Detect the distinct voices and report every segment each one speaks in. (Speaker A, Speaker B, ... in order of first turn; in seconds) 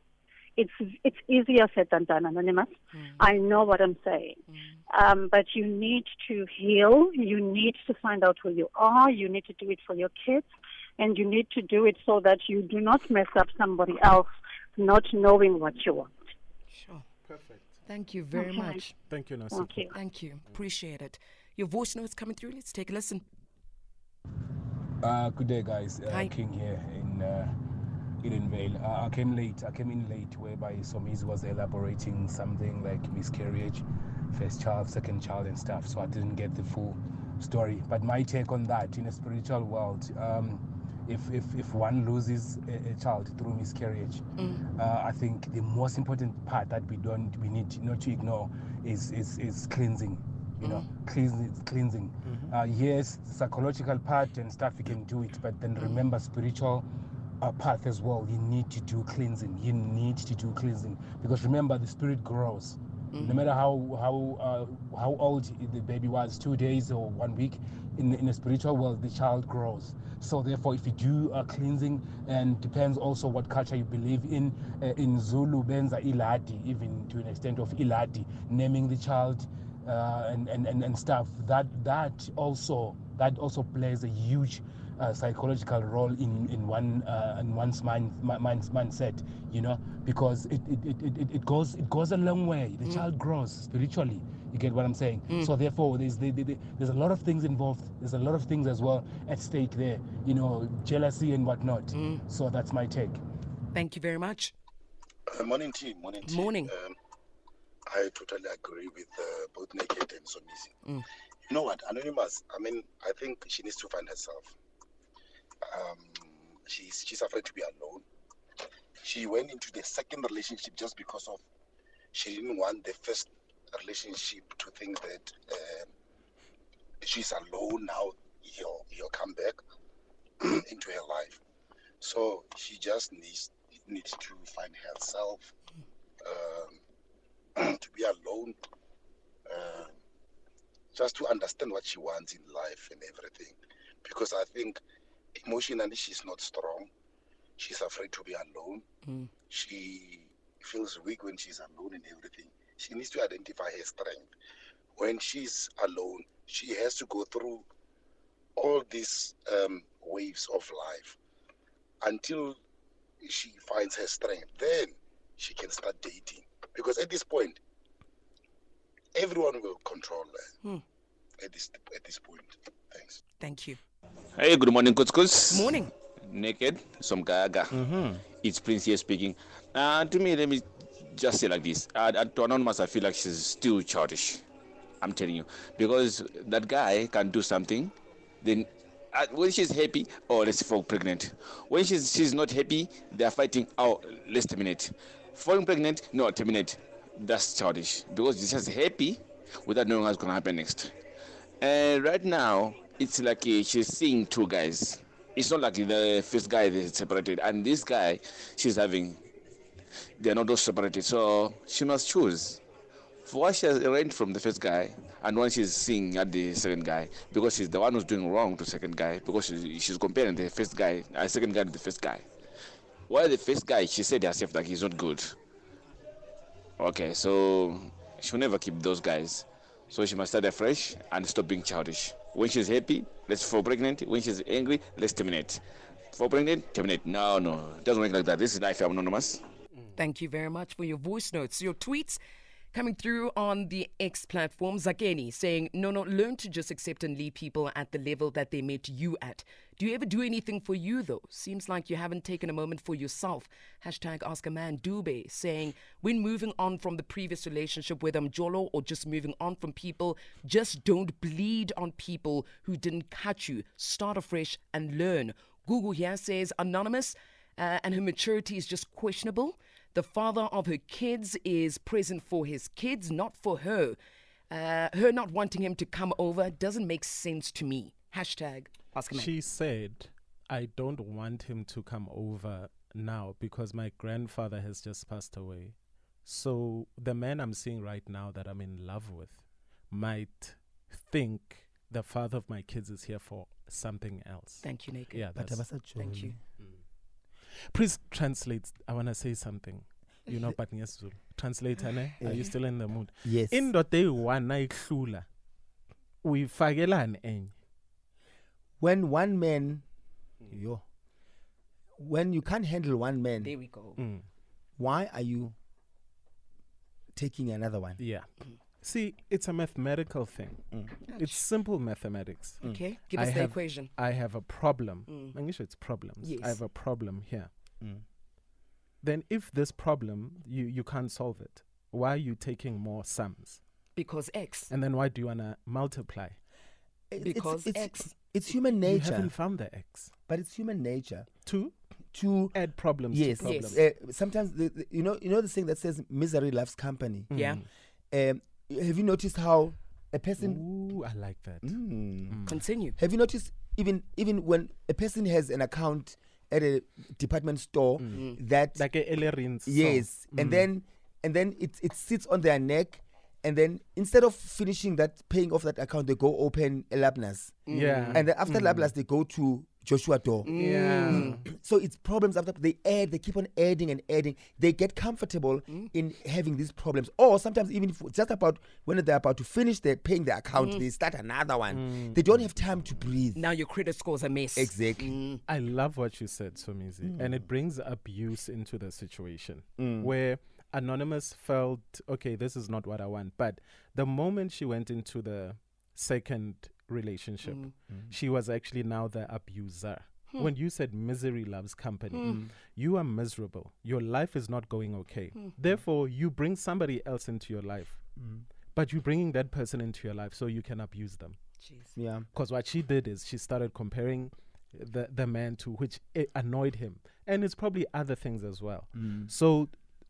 Speaker A: 0.6-16.1, 18.4-18.7, 19.5-19.9
Speaker B: 2.9-3.3, 4.5-4.8, 16.7-17.1, 17.9-19.0, 19.9-23.2, 44.4-44.6, 50.6-50.9, 55.8-56.0, 63.1-63.5, 95.3-95.5, 101.9-102.2, 103.7-104.5, 106.2-106.7, 149.0-149.3, 173.4-173.8, 175.5-175.9, 240.0-242.2, 242.7-274.0, 274.5-279.3, 294.6-295.3, 295.8-296.4, 313.4-314.0, 321.1-321.4, 322.6-323.9, 325.1-325.4, 326.2-326.6, 334.0-334.7, 337.2-338.2, 343.4-343.8, 347.3-347.6, 352.5-353.0, 358.1-358.4, 367.7-368.3, 370.4-371.4, 383.4-385.4, 397.4-397.7, 402.1-402.4, 411.6-412.0
Speaker C: 17.3-17.7, 19.1-19.9, 279.1-295.8, 297.7-305.3, 306.2-307.6, 314.0-314.3, 318.0-327.5, 329.0-333.6, 334.7-336.4, 338.9-340.1, 341.4-341.7, 342.5-343.8, 347.3-347.7, 350.4-352.7, 358.0-360.7, 367.7-368.9, 370.5-371.4, 381.7-382.4, 385.5-408.1, 408.7-411.4, 412.3-419.8
Speaker D: 25.0-27.6, 28.2-56.9, 57.4-103.2
Speaker E: 52.3-52.5, 177.7-178.2, 295.4-296.4, 302.2-302.5, 303.2-303.7, 308.8-309.9, 310.5-310.8, 312.0-313.5, 314.8-315.6, 317.1-318.0, 337.1-339.3, 340.3-341.3, 342.1-347.3, 348.1-350.6, 351.6-352.4, 353.0-358.9, 359.7-370.5, 371.1-383.4, 384.6-385.1, 387.0-387.4, 389.8-390.1, 397.9-398.1, 402.2-402.5, 408.2-408.5, 412.0-412.3, 418.9-419.3
Speaker F: 105.3-107.0, 107.9-110.8, 111.5-114.5, 115.7-118.0, 119.0-121.4, 122.1-125.9, 127.0-129.6, 130.4-131.4, 132.0-135.5, 136.2-136.8, 137.6-138.6, 139.5-140.0, 140.9-144.8, 145.4-146.9, 147.6-148.9, 149.5-154.3, 155.0-157.7, 158.6-161.2, 162.0-162.6, 163.2-167.6, 169.2-170.5, 171.4-173.2
Speaker G: 174.4-177.8, 178.3-184.4, 185.0-200.9, 201.6-209.2, 210.2-212.6, 213.3-222.3, 223.1-225.4, 226.8-235.6, 236.1-239.4